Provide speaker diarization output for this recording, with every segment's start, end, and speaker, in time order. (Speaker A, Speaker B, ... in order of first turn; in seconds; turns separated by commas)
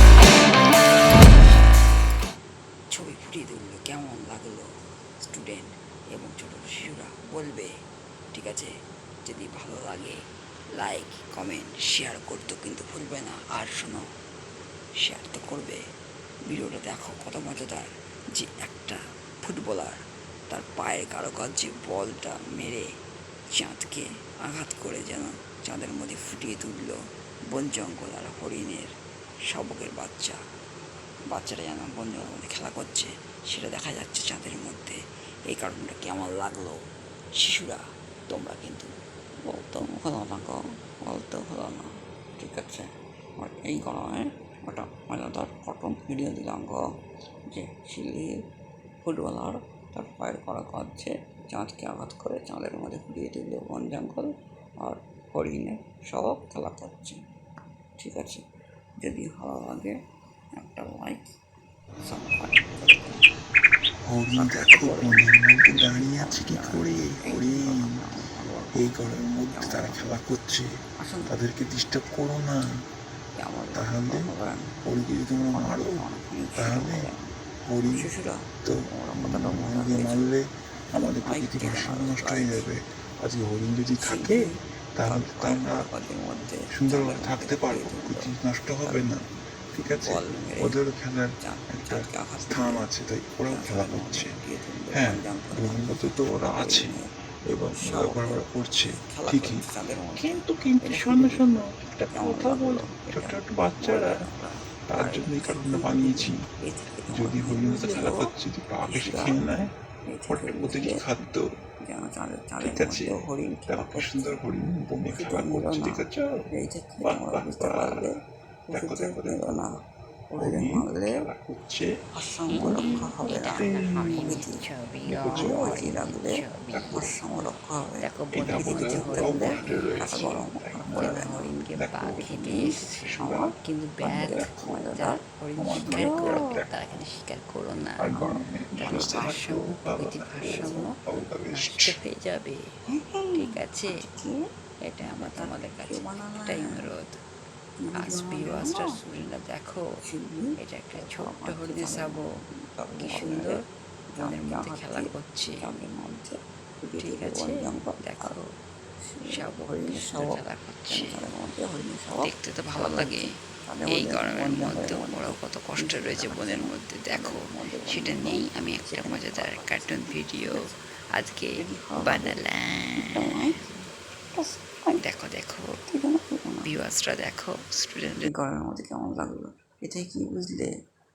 Speaker A: 0.5-1.6, Speaker A: 2.9-4.6, Speaker A: 5.3-5.6, Speaker A: 6.1-7.7, Speaker A: 9.3-9.9, Speaker B: 10.8-11.1, Speaker A: 11.2-14.0, Speaker A: 15.0-15.8, Speaker A: 16.5-22.8, Speaker A: 23.5-27.0, Speaker A: 27.5-28.9, Speaker A: 29.5-30.4, Speaker A: 31.3-35.0, Speaker A: 35.5-36.8, Speaker A: 37.4-38.9, Speaker A: 39.4-46.8, Speaker A: 47.5-48.3, Speaker A: 49.0-57.2, Speaker A: 58.0-58.4, Speaker A: 59.0-60.0, Speaker A: 60.6-61.3, Speaker A: 62.0-63.2, Speaker C: 64.0-68.0, Speaker A: 64.3-69.0, Speaker C: 68.7-70.7, Speaker A: 69.5-70.1, Speaker A: 71.0-71.3, Speaker C: 71.3-72.6, Speaker A: 73.4-74.7, Speaker C: 73.7-74.3, Speaker C: 74.8-76.0, Speaker A: 75.5-77.3, Speaker C: 76.6-77.1, Speaker C: 77.7-78.1, Speaker A: 77.9-80.3, Speaker C: 78.6-85.9, Speaker A: 81.2-82.6, Speaker A: 84.0-88.3, Speaker C: 86.7-94.4, Speaker A: 88.8-89.2, Speaker A: 89.8-90.8, Speaker A: 91.4-92.9, Speaker A: 93.5-97.1, Speaker C: 94.9-96.9, Speaker C: 97.5-99.6, Speaker A: 97.8-98.4, Speaker A: 99.0-101.5, Speaker C: 100.2-104.2, Speaker A: 102.1-108.3, Speaker C: 104.9-106.4, Speaker C: 107.1-109.7, Speaker A: 108.8-109.4, Speaker A: 110.0-111.0, Speaker C: 110.3-111.5, Speaker A: 111.8-114.3, Speaker C: 112.6-116.4, Speaker A: 115.1-118.2, Speaker C: 117.0-118.1, Speaker A: 118.7-119.8, Speaker C: 118.7-119.7, Speaker A: 120.3-121.2, Speaker C: 120.4-121.9, Speaker A: 122.1-124.6, Speaker C: 122.5-124.4, Speaker B: 122.5-130.4, Speaker C: 125.1-126.0, Speaker A: 125.3-131.6, Speaker C: 126.7-127.1, Speaker C: 128.3-134.9, Speaker B: 130.9-133.0, Speaker A: 132.3-133.5, Speaker B: 133.6-138.1, Speaker A: 134.1-135.2, Speaker C: 135.6-136.7, Speaker A: 135.8-136.6, Speaker C: 138.0-142.0, Speaker A: 138.1-139.4, Speaker B: 138.8-141.0, Speaker A: 140.5-140.9, Speaker B: 141.5-142.7, Speaker A: 142.8-144.5, Speaker B: 143.3-144.0, Speaker B: 144.8-147.1, Speaker A: 145.0-146.9, Speaker A: 147.8-149.0, Speaker B: 148.0-149.9, Speaker A: 150.0-153.6, Speaker B: 150.6-152.3, Speaker B: 153.0-153.6, Speaker B: 154.2-155.6, Speaker A: 154.2-158.4, Speaker B: 157.0-158.5, Speaker A: 159.1-170.7, Speaker B: 159.3-161.3, Speaker B: 162.1-173.9, Speaker A: 171.6-172.4, Speaker A: 172.9-173.6, Speaker A: 174.3-175.0, Speaker B: 175.0-175.8, Speaker A: 175.9-176.7, Speaker B: 176.6-178.3, Speaker A: 178.2-180.7